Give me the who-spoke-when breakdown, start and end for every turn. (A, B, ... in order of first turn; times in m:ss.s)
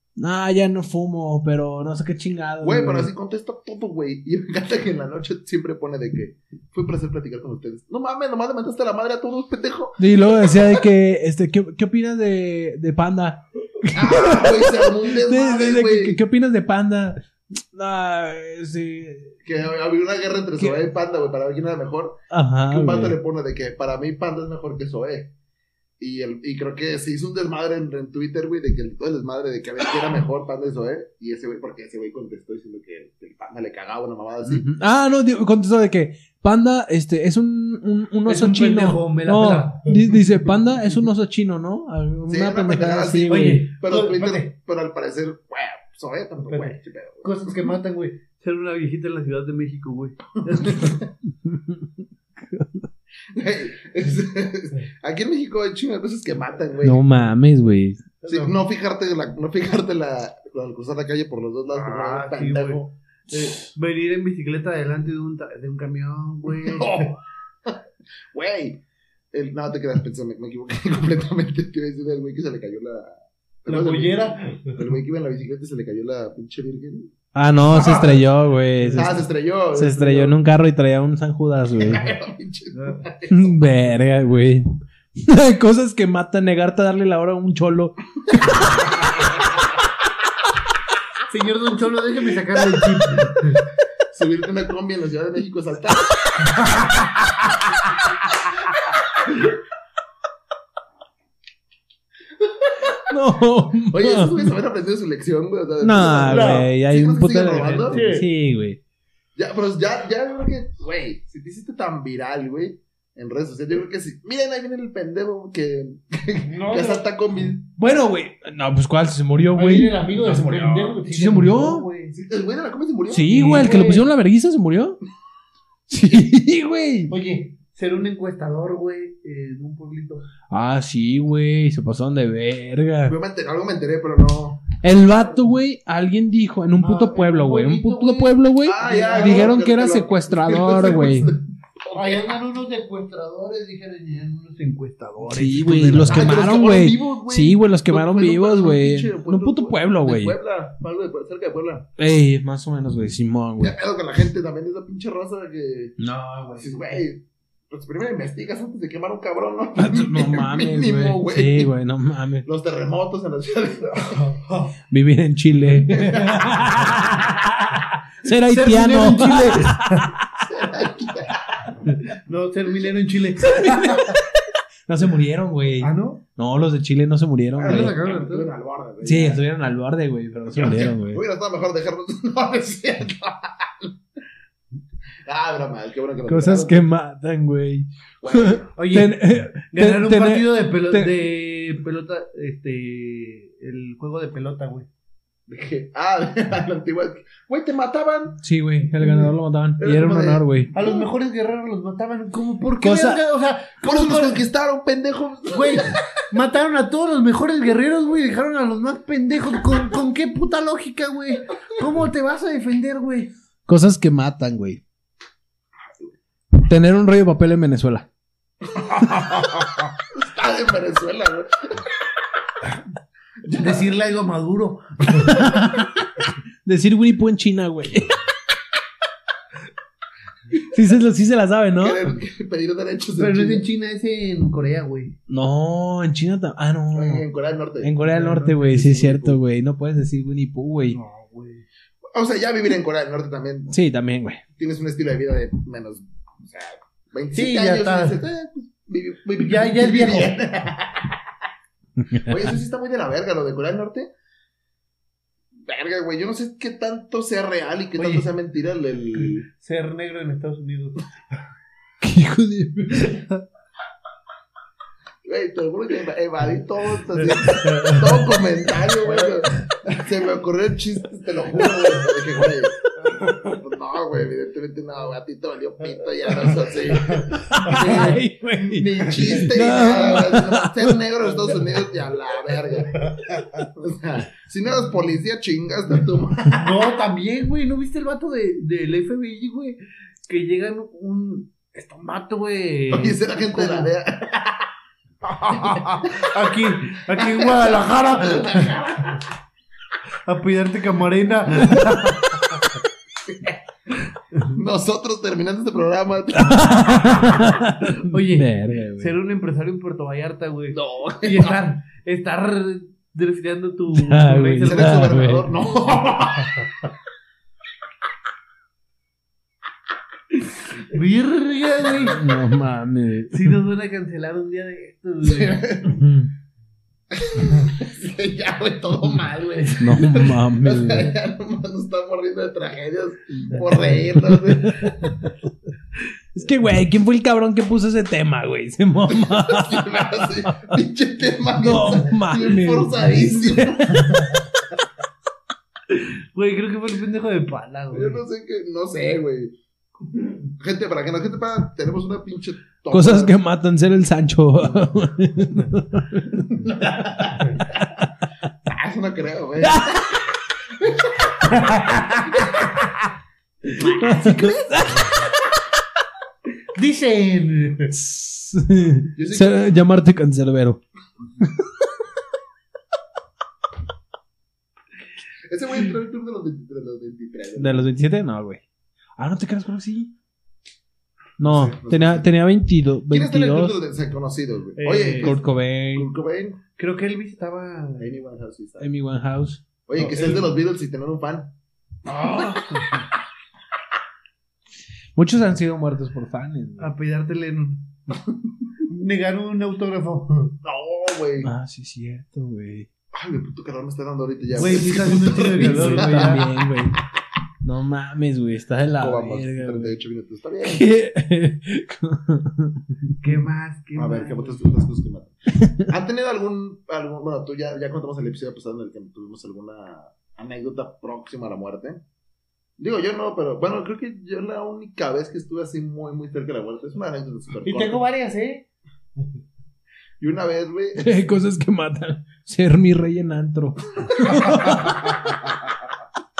0:00.2-0:03.1 A
0:02.6-0:10.8 B
0:10.0-0:19.4 A
0:13.9-0:16.2 B
0:19.4-0:22.2 B
0:22.3-0:23.2 A
0:22.7-0:25.3 B
0:26.0-0:34.7 B
0:34.4-0:43.7 A
0:38.2-0:39.9 C
0:42.3-0:47.5 B
0:43.3-0:44.5 C
0:46.5-0:51.0 C
0:50.6-0:51.1 B
0:51.4-0:52.9 A
0:53.3-0:57.0 B
0:56.8-0:58.1 A
0:58.2-0:58.6 C
0:58.3-1:02.9 B
1:01.7-1:07.1 C
1:06.5-1:07.8 B
1:08.3-1:08.8 B
1:09.3-1:17.1 B
1:13.6-1:14.8 C
1:17.3-1:22.1 A
1:17.6-1:18.2 B
1:18.8-1:19.1 C
1:18.9-1:20.4 B
1:21.7-1:23.7 B
1:22.7-1:23.0 C
1:23.3-1:28.8 A
1:28.6-1:29.4 B
1:31.3-1:33.6 C
1:34.1-1:36.5 B
1:42.6-1:43.0 B
1:43.0-1:44.5 A
1:43.9-1:48.0 B
1:45.8-1:48.8 A
1:46.3-1:46.6 C
1:47.9-1:48.2 C
1:49.4-1:57.7 B
1:56.5-1:57.1 C
1:57.8-2:00.0 A
1:59.5-2:02.1 C
2:00.2-2:01.0 B
2:01.1-2:01.8 A
2:02.1-2:03.8 B
2:03.1-2:05.0 A
2:03.3-2:04.1 C
2:05.9-2:07.1 A
2:07.1-2:10.3 C
2:10.5-2:13.2 A
2:13.0-2:14.7 B
2:14.8-2:21.3 A
2:16.8-2:19.6 C
2:18.6-2:22.2 B
2:21.9-2:26.3 C
2:25.2-2:30.4 A
2:26.0-2:31.9 B
2:32.0-2:33.8 A
2:33.6-2:36.0 B
2:36.0-2:36.8 A
2:36.6-2:41.7 B
2:39.8-2:42.5 A
2:42.4-2:44.2 B
2:44.1-2:44.7 C
2:44.9-2:50.2 A
2:45.9-2:46.8 B
2:48.4-2:50.1 C
2:50.4-2:51.6 B
2:51.8-2:54.2 C
2:53.5-2:54.2 A
2:54.9-2:57.9 A
2:55.8-2:56.2 C
2:57.6-2:59.4 B
2:57.6-2:58.5 C
2:59.0-3:01.2 A
3:00.5-3:04.0 B
3:05.2-3:06.8 B
3:06.3-3:11.1 A
3:08.2-3:08.7 B
3:08.8-3:09.2 C
3:09.7-3:14.9 C
3:15.5-3:18.4 B
3:18.4-3:20.7 A
3:19.8-3:21.1 B
3:20.7-3:24.4 C
3:22.8-3:23.2 A
3:23.8-3:26.1 B
3:25.5-3:33.3 C
3:33.7-3:34.8 A
3:36.6-3:38.1 A
3:38.7-3:41.9 B
3:43.4-3:43.9 B
3:43.6-3:45.6 C
3:45.3-3:45.9 A
3:46.6-3:48.2 A
3:50.7-3:52.0 A
3:51.8-3:53.6 B
3:53.2-3:55.2 C
3:55.3-3:57.2 A
3:56.9-3:59.4 B
3:57.8-4:01.0 A
3:58.1-3:58.5 C
4:00.9-4:01.6 C
4:02.1-4:03.7 B
4:03.7-4:04.4 A
4:04.6-4:11.2 B
4:07.3-4:08.2 C
4:09.4-4:10.3 C
4:12.1-4:12.3 A
4:12.2-4:14.1 B
4:15.6-4:19.4 B
4:18.0-4:18.3 C
4:19.1-4:21.0 C
4:22.0-4:23.3 A
4:25.2-4:32.8 B
4:27.2-4:28.2 C
4:29.0-4:30.0 C
4:33.3-4:43.0 B
4:37.0-4:38.2 C
4:37.5-4:41.0 A
4:43.0-4:43.6 C
4:43.8-4:46.7 B
4:46.5-4:53.9 C
4:52.9-4:54.7 B
4:55.2-4:58.7 C
4:55.5-4:56.0 B
4:57.1-4:59.2 B
5:00.2-5:02.6 C
5:03.3-5:03.6 B
5:04.5-5:07.5 B
5:06.3-5:09.1 A
5:08.0-5:15.0 C
5:10.7-5:11.6 B
5:13.9-5:15.5 A
5:14.6-5:16.7 B
5:20.8-5:22.2 C
5:22.0-5:23.6 A
5:23.3-5:25.7 C
5:25.2-5:26.0 B
5:25.8-5:26.3 A
5:27.1-5:35.1 B
5:29.8-5:31.1 A
5:33.5-5:33.9 C
5:34.2-5:35.3 A
5:36.3-5:40.7 A
5:39.1-5:44.2 B
5:41.6-5:44.4 A
5:45.9-5:48.2 C
5:47.9-5:49.6 B
5:50.6-5:53.4 B
5:52.9-5:57.6 A
5:54.6-5:55.0 B
5:56.6-5:57.2 B
5:58.6-6:00.2 B
5:59.6-6:00.2 A
6:00.8-6:01.3 B
6:01.5-6:02.3 C
6:03.8-6:04.7 B
6:03.8-6:05.3 A
6:06.7-6:07.9 C
6:07.9-6:10.8 A
6:09.1-6:09.7 B
6:15.4-6:17.8 B
6:17.6-6:18.6 A
6:19.2-6:20.1 A
6:21.4-6:23.8 A
6:21.4-6:22.3 B
6:23.1-6:26.6 B
6:24.8-6:25.3 C
6:25.2-6:26.1 A
6:26.8-6:28.1 C
6:28.0-6:28.9 B
6:28.8-6:29.6 A
6:29.9-6:31.5 B
6:30.0-6:30.5 C
6:32.1-6:32.9 C
6:35.2-6:36.9 A
6:36.8-6:37.9 C
6:38.9-6:40.6 C
6:40.6-6:41.5 B
6:41.4-6:42.9 A
6:43.1-6:46.6 B
6:44.5-6:46.4 C
6:45.6-6:47.0 A
6:47.6-6:50.0 A
6:49.0-6:50.9 B
6:50.6-6:52.9 A
6:53.2-6:54.6 C
6:54.0-7:02.0 B
7:02.8-7:08.0 B
7:07.6-7:08.6 C
7:10.2-7:11.3 B
7:11.0-7:15.4 A
7:14.2-7:15.5 B